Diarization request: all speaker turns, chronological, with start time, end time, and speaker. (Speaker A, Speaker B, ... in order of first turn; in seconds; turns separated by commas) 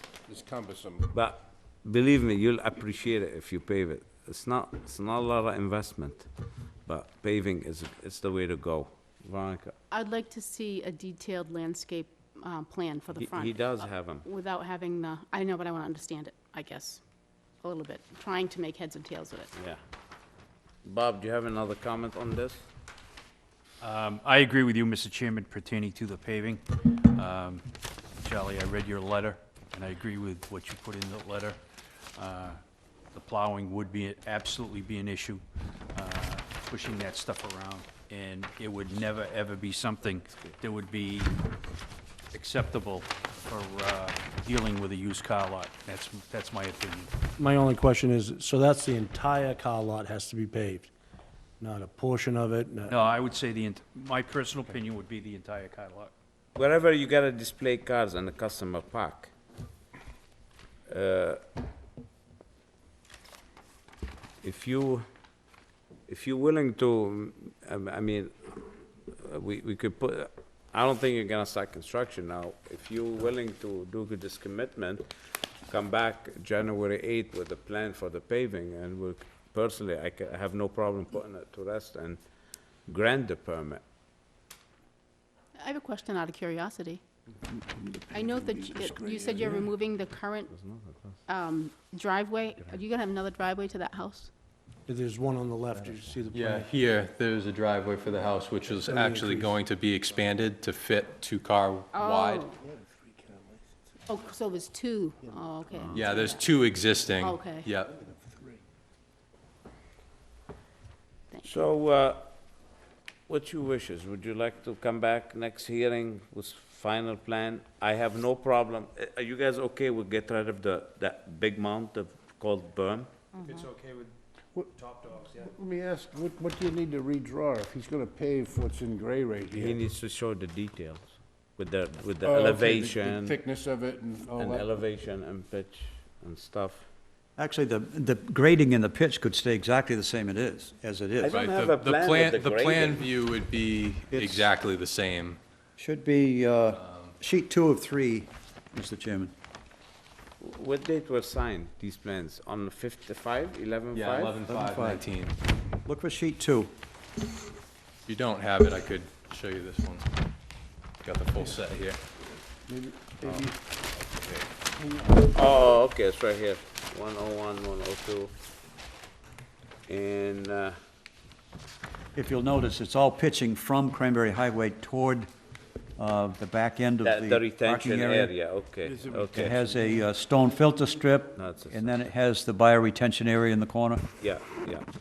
Speaker A: 0.3-1.1, Speaker B: 1.1-6.3, Speaker B: 6.8-9.7, Speaker C: 9.9-17.0, Speaker B: 13.1-14.2, Speaker C: 17.6-19.5, Speaker B: 19.5-19.8, Speaker B: 20.8-22.7, Speaker D: 23.8-27.6, Speaker D: 28.2-31.6, Speaker D: 32.1-32.6, Speaker D: 33.1-35.4, Speaker D: 35.9-41.3, Speaker D: 42.3-47.2, Speaker E: 47.4-50.9, Speaker E: 51.6-53.0, Speaker D: 52.9-56.1, Speaker B: 56.5-59.3, Speaker B: 60.9-61.4, Speaker B: 64.4-65.0, Speaker B: 66.1-75.0, Speaker B: 75.7-83.8, Speaker C: 85.6-87.0, Speaker A: 87.5-89.7, Speaker C: 88.1-90.5, Speaker B: 90.5-91.2, Speaker C: 91.3-94.3, Speaker E: 94.9-96.7, Speaker F: 96.3-102.4, Speaker E: 98.8-99.5, Speaker C: 101.9-102.6, Speaker A: 102.6-103.8, Speaker C: 104.1-107.7, Speaker A: 105.2-106.0, Speaker F: 105.9-107.9, Speaker A: 107.9-108.6, Speaker C: 111.3-111.7, Speaker B: 111.4-112.3, Speaker B: 113.3-123.1, Speaker C: 123.4-123.7, Speaker A: 124.5-129.8, Speaker B: 129.5-133.4, Speaker A: 132.2-134.7, Speaker B: 134.3-136.8, Speaker G: 137.4-141.3, Speaker B: 141.2-143.1, Speaker F: 141.3-145.4, Speaker G: 144.1-144.5, Speaker G: 145.8-149.3, Speaker F: 146.7-147.1, Speaker B: 150.4-154.4, Speaker F: 153.9-155.3, Speaker G: 154.5-155.1, Speaker G: 155.8-156.7, Speaker F: 158.1-160.0, Speaker F: 161.0-162.0, Speaker A: 162.7-163.7, Speaker A: 164.5-165.4, Speaker B: 165.2-168.3, Speaker B: 169.9-170.7, Speaker G: 172.1-175.3, Speaker G: 176.0-178.3, Speaker B: 177.0-179.7, Speaker A: 178.8-180.9, Speaker G: 179.3-184.1, Speaker B: 181.4-182.1, Speaker B: 184.2-184.8